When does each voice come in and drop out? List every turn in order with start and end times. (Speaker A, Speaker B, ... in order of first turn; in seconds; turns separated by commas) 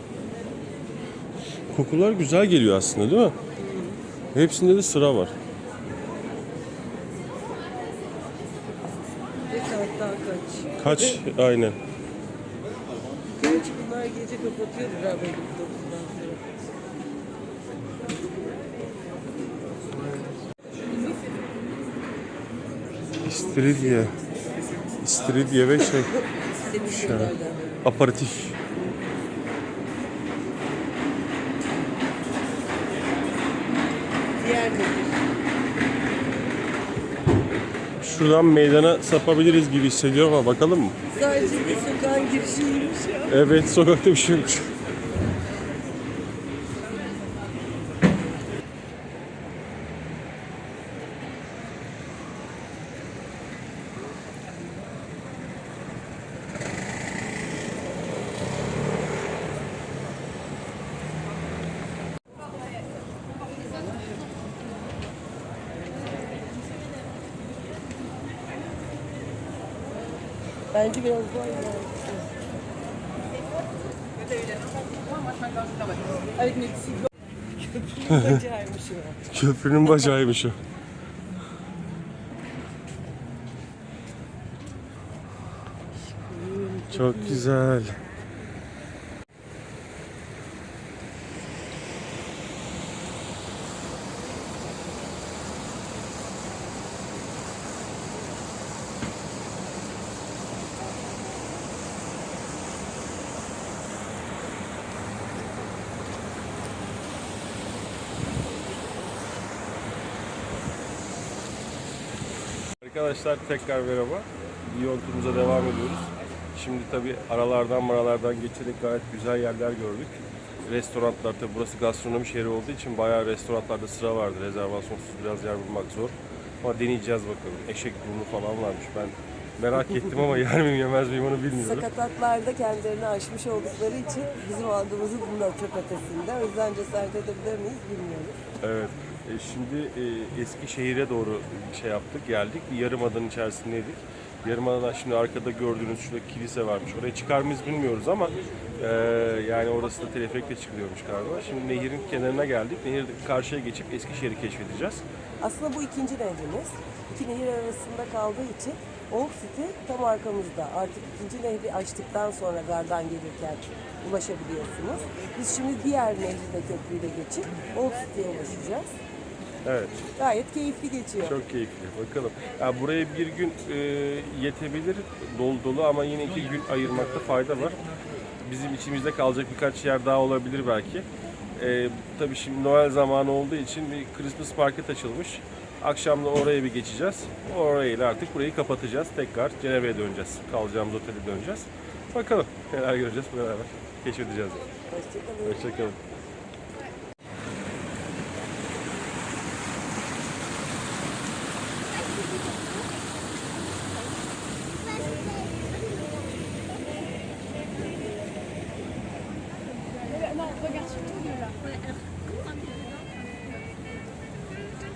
Speaker A: 1.7-3.4, Speaker B: 3.6-4.0, Speaker A: 4.3-5.3, Speaker B: 9.4-11.2, Speaker A: 10.8-11.8, Speaker B: 13.4-16.4, Speaker A: 23.2-24.2, Speaker A: 25.0-26.1, Speaker B: 26.4-27.8, Speaker A: 26.9-28.6, Speaker B: 34.4-35.2, Speaker A: 38.0-41.0, Speaker B: 41.1-43.4, Speaker A: 43.3-44.7, Speaker B: 70.7-72.3, Speaker B: 77.6-79.2, Speaker A: 78.1-78.4, Speaker A: 79.3-80.6, Speaker B: 86.0-87.5, Speaker A: 86.9-88.0, Speaker A: 112.8-131.9, Speaker B: 131.6-138.4, Speaker A: 138.6-155.1, Speaker B: 155.4-169.0, Speaker A: 169.7-170.0, Speaker B: 170.2-171.4, Speaker A: 171.2-177.8, Speaker A: 178.4-194.6, Speaker B: 194.9-195.7, Speaker A: 195.4-196.0